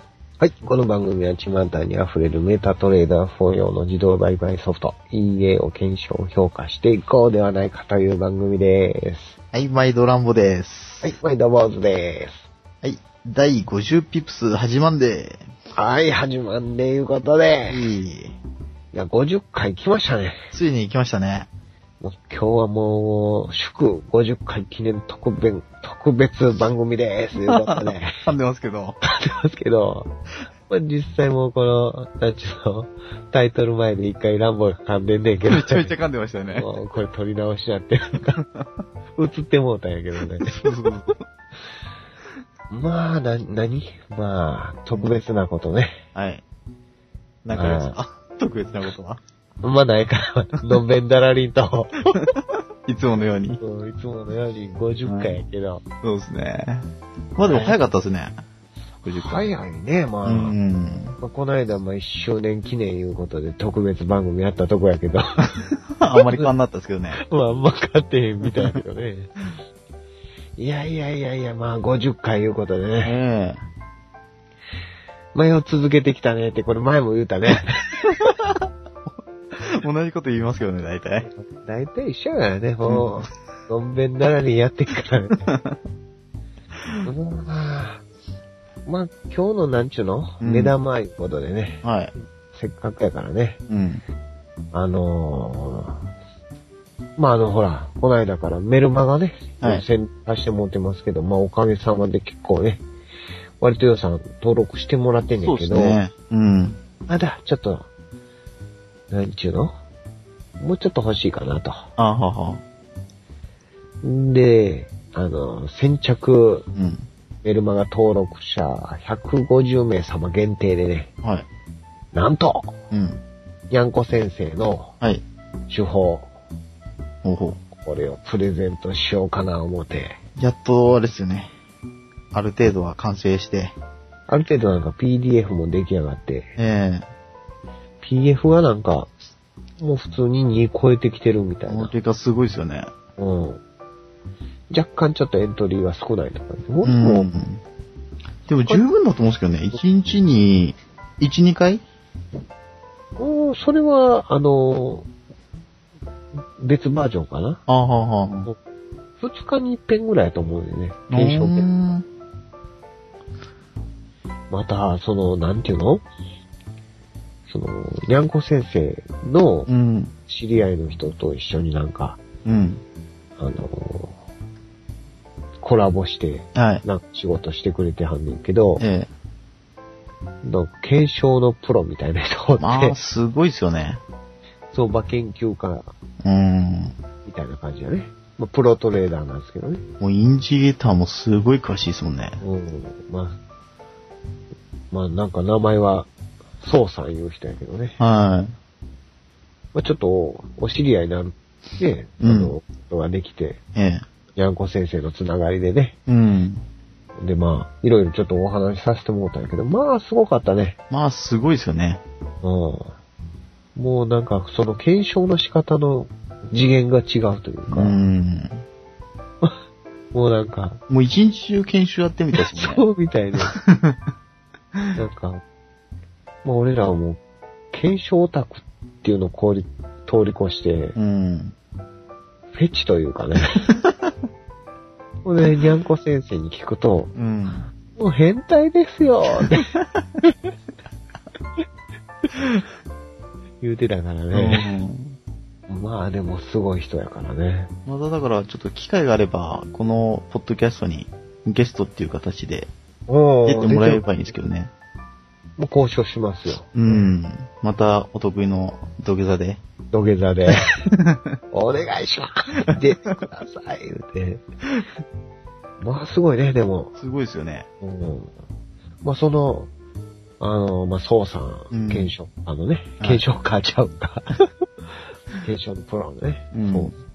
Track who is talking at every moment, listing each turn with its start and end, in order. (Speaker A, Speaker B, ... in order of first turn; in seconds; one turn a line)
Speaker A: 0.4-9.4
Speaker B: 9.5-11.1
Speaker A: 11.0-12.5
Speaker B: 12.8-15.5
Speaker A: 15.7-17.9
Speaker B: 17.7-18.4
Speaker A: 18.9-20.5
Speaker B: 20.5-21.5
Speaker A: 22.0-28.2
Speaker B: 27.5-29.0
Speaker A: 29.0-30.1
Speaker A: 30.7-36.0
Speaker B: 35.5-36.7
Speaker A: 36.5-38.4
Speaker A: 39.2-40.6
Speaker B: 40.4-41.2
Speaker A: 42.7-46.0
Speaker B: 46.1-46.4
Speaker B: 47.5-49.2
Speaker A: 47.5-48.0
Speaker A: 49.6-52.2
Speaker B: 52.9-53.6
Speaker A: 53.6-55.8
Speaker B: 55.1-55.4
Speaker B: 56.0-58.4
Speaker A: 57.4-57.8
Speaker B: 59.0-59.5
Speaker A: 59.1-60.6
Speaker B: 60.2-61.2
Speaker A: 61.2-65.4
Speaker B: 66.0-67.2
Speaker A: 67.1-69.3
Speaker A: 70.6-73.2
Speaker B: 73.0-73.6
Speaker A: 75.3-78.1
Speaker B: 78.1-81.3
Speaker A: 81.2-85.5
Speaker B: 82.8-83.2
Speaker B: 85.5-85.8
Speaker A: 87.0-88.0
Speaker A: 88.9-91.8
Speaker B: 90.4-90.7
Speaker B: 91.8-92.1
Speaker A: 92.5-93.6
Speaker B: 93.7-94.0
Speaker A: 94.7-96.0
Speaker A: 97.2-102.8
Speaker A: 103.6-106.0
Speaker B: 105.4-106.8
Speaker A: 107.1-107.9
Speaker A: 109.1-109.8
Speaker A: 110.6-111.9
Speaker B: 112.0-112.6
Speaker A: 114.0-116.7
Speaker B: 116.7-117.1
Speaker A: 117.4-121.1
Speaker A: 122.1-122.8
Speaker B: 122.9-123.2
Speaker A: 123.7-125.0
Speaker A: 125.7-126.3
Speaker B: 127.2-127.6
Speaker A: 127.8-130.2
Speaker B: 130.4-131.5
Speaker B: 132.3-133.8
Speaker A: 134.3-136.6
Speaker B: 136.6-137.1
Speaker A: 138.0-139.2
Speaker A: 139.8-141.9
Speaker B: 141.7-142.9
Speaker A: 143.2-143.6
Speaker A: 144.7-147.3
Speaker B: 146.8-147.6
Speaker B: 148.5-151.8
Speaker A: 153.2-155.1
Speaker A: 156.6-157.6
Speaker B: 157.7-158.5
Speaker A: 159.2-161.7
Speaker B: 161.1-162.1
Speaker A: 164.5-166.1
Speaker A: 167.5-169.7
Speaker B: 169.7-170.1
Speaker A: 170.3-172.2
Speaker B: 172.4-172.8
Speaker A: 173.4-174.2
Speaker A: 175.6-178.8
Speaker B: 176.6-176.8
Speaker B: 178.8-179.1
Speaker A: 180.4-183.0
Speaker B: 182.6-184.0
Speaker A: 184.7-185.9
Speaker B: 186.2-187.0
Speaker A: 187.2-189.8
Speaker B: 190.0-192.4
Speaker A: 192.4-193.4
Speaker A: 194.9-196.1
Speaker A: 196.6-198.0
Speaker B: 198.0-198.6
Speaker A: 199.7-203.6
Speaker B: 202.2-202.5
Speaker B: 203.8-204.1
Speaker A: 204.3-206.0
Speaker B: 206.1-206.6
Speaker A: 207.2-210.8
Speaker B: 210.9-212.0
Speaker A: 212.4-212.9
Speaker A: 213.8-218.0
Speaker B: 217.7-218.6
Speaker A: 220.1-220.8
Speaker B: 220.9-222.8
Speaker A: 222.4-223.6
Speaker B: 223.5-224.0
Speaker A: 224.9-225.4
Speaker A: 226.4-227.2
Speaker A: 227.7-231.0
Speaker B: 231.0-231.6
Speaker A: 232.5-233.7
Speaker B: 233.7-234.1
Speaker A: 235.2-237.2
Speaker B: 237.2-237.7
Speaker A: 237.9-239.7
Speaker A: 243.6-244.7
Speaker B: 244.3-245.2
Speaker A: 245.7-247.7
Speaker B: 247.9-252.7
Speaker A: 253.1-254.0
Speaker B: 253.5-254.7
Speaker A: 255.6-257.0
Speaker B: 256.7-259.6
Speaker A: 259.9-260.8
Speaker B: 260.9-261.3
Speaker A: 261.5-264.4
Speaker A: 265.8-267.0
Speaker B: 267.0-267.7
Speaker A: 267.8-268.3
Speaker A: 269.0-269.7
Speaker A: 270.4-274.4
Speaker B: 271.7-272.1
Speaker A: 275.4-277.0
Speaker B: 276.5-276.9